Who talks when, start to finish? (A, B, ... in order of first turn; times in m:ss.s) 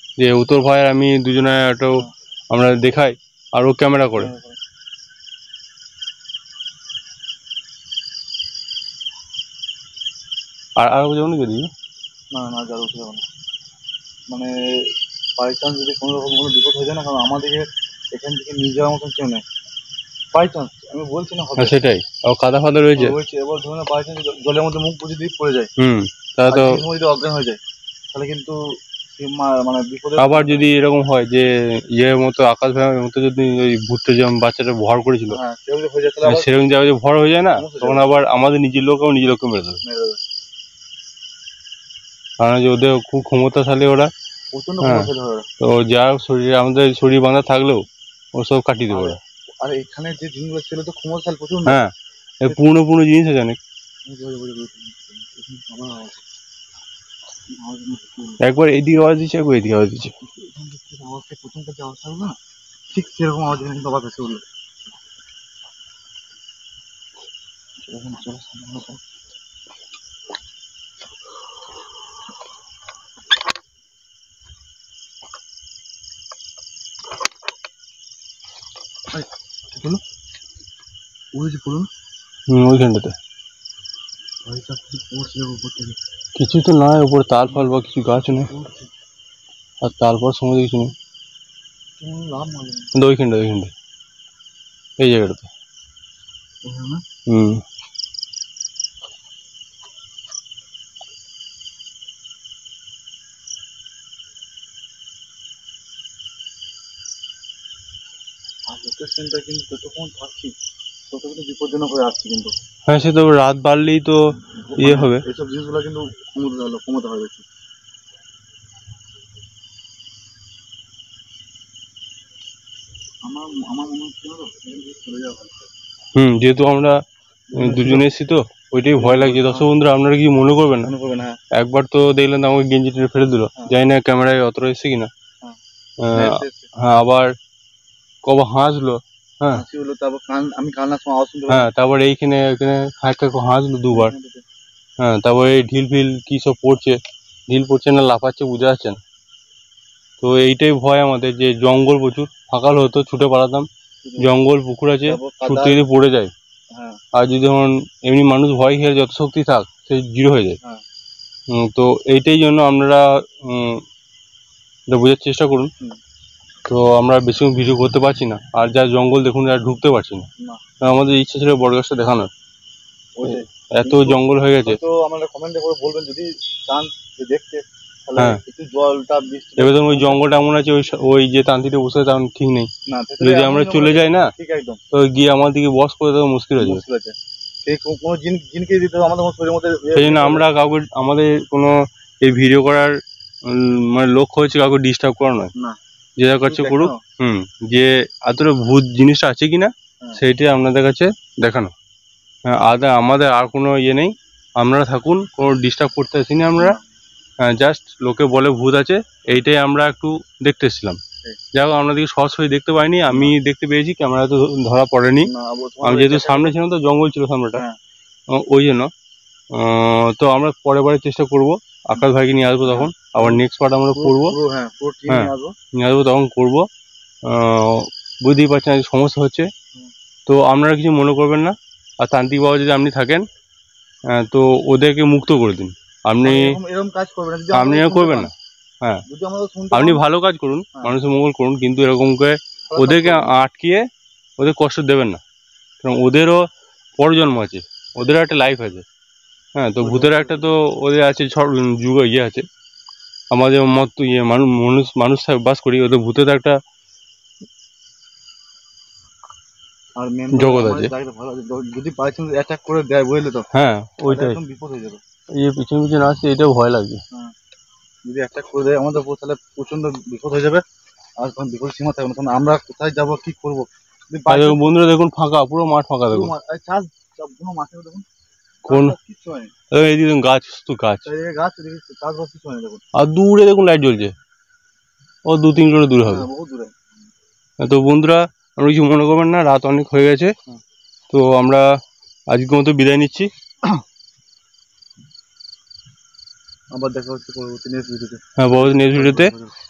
0:00.2-0:04.3 A
0:04.2-0:04.6 B
0:10.8-0:11.7 A
0:12.3-0:13.2 B
0:14.3-0:19.4 B
0:20.3-0:21.8 B
0:21.6-0:23.2 A
0:23.0-0:25.7 B
0:25.8-0:26.8 A
0:26.5-0:27.6 B
0:28.1-0:28.6 B
0:29.1-0:30.7 B
0:30.2-0:35.4 A
0:35.3-0:36.5 B
0:36.2-0:39.8 A
0:37.5-0:38.1 B
0:39.8-0:40.2 B
0:42.4-0:44.1 A
0:44.5-0:45.5 B
0:44.8-0:45.1 A
0:45.6-0:49.2 A
0:48.9-0:51.8 B
0:51.6-0:53.6 A
0:54.0-0:56.2 B
0:57.5-0:58.4 B
0:58.4-1:00.1 A
1:00.2-1:02.4 B
1:02.9-1:04.4 B
1:07.8-1:09.0 B
1:19.1-1:20.0 B
1:21.3-1:21.9 B
1:22.5-1:23.1 A
1:24.4-1:26.0 B
1:26.4-1:28.5 A
1:28.4-1:28.9 B
1:29.8-1:30.9 A
1:32.0-1:32.9 B
1:32.9-1:33.7 A
1:35.0-1:35.5 A
1:36.6-1:37.0 B
1:37.3-1:37.6 A
1:48.7-1:50.5 B
1:51.1-1:52.5 B
1:52.9-1:54.2 A
1:54.6-1:57.5 B
1:54.8-1:55.2 A
2:03.2-2:05.7 B
2:06.1-2:07.0 A
2:07.5-2:08.1 B
2:07.6-2:10.9 A
2:08.9-2:09.7 B
2:10.8-2:11.4 B
2:11.5-2:15.1 A
2:16.0-2:17.3 A
2:16.1-2:16.7 B
2:18.2-2:19.6 A
2:19.5-2:21.7 B
2:21.5-2:24.1 A
2:23.9-2:24.4 B
2:25.0-2:29.0 A
2:30.2-2:33.7 A
2:34.0-2:34.3 B
2:34.2-2:36.3 A
2:35.0-2:35.8 B
2:36.7-2:37.0 B
2:37.1-2:40.6 A
2:41.5-2:43.8 A
2:44.9-2:45.7 A
2:46.6-2:50.3 A
2:50.8-2:52.3 A
2:53.2-3:00.2 B
2:53.2-2:54.8 A
2:58.2-2:58.4 A
2:59.6-3:04.3 A
3:02.9-3:04.8 B
3:04.9-3:06.8 A
3:06.6-3:10.4 B
3:10.0-3:15.5 A
3:16.2-3:21.7 A
3:16.4-3:17.0 B
3:22.4-3:26.8 A
3:26.6-3:26.8 B
3:27.4-3:31.0 A
3:31.5-3:35.3 A
3:33.1-3:33.3 B
3:35.2-3:36.5 B
3:35.8-3:37.6 A
3:38.3-3:38.9 A
3:39.5-3:44.4 A
3:42.6-3:43.4 B
3:43.9-3:45.5 B
3:45.1-3:46.7 A
3:47.2-3:49.5 A
3:50.2-3:53.3 A
3:54.1-3:56.6 A
3:56.2-3:58.3 B
3:57.5-3:59.0 A
3:59.1-4:00.0 B
3:59.7-4:03.9 A
4:02.7-4:03.3 B
4:04.4-4:05.2 A
4:05.8-4:06.5 A
4:07.0-4:08.9 A
4:09.6-4:12.4 A
4:09.8-4:10.6 B
4:13.3-4:16.6 A
4:20.0-4:23.5 B
4:20.3-4:20.9 A
4:23.5-4:24.4 A
4:24.1-4:25.0 B
4:25.4-4:27.0 A
4:28.0-4:30.6 B
4:31.2-4:34.7 B
4:34.3-4:36.3 A
4:36.1-4:38.0 B
4:38.6-4:39.5 B
4:38.7-4:38.9 A
4:39.7-4:41.1 A
4:41.0-4:42.8 B
4:42.9-4:44.1 A
4:45.3-4:46.2 A
4:46.0-4:46.7 B
4:47.6-4:50.3 A
4:51.1-4:51.6 A
4:52.3-4:53.3 A
4:56.7-4:59.5 B
4:58.4-4:59.3 A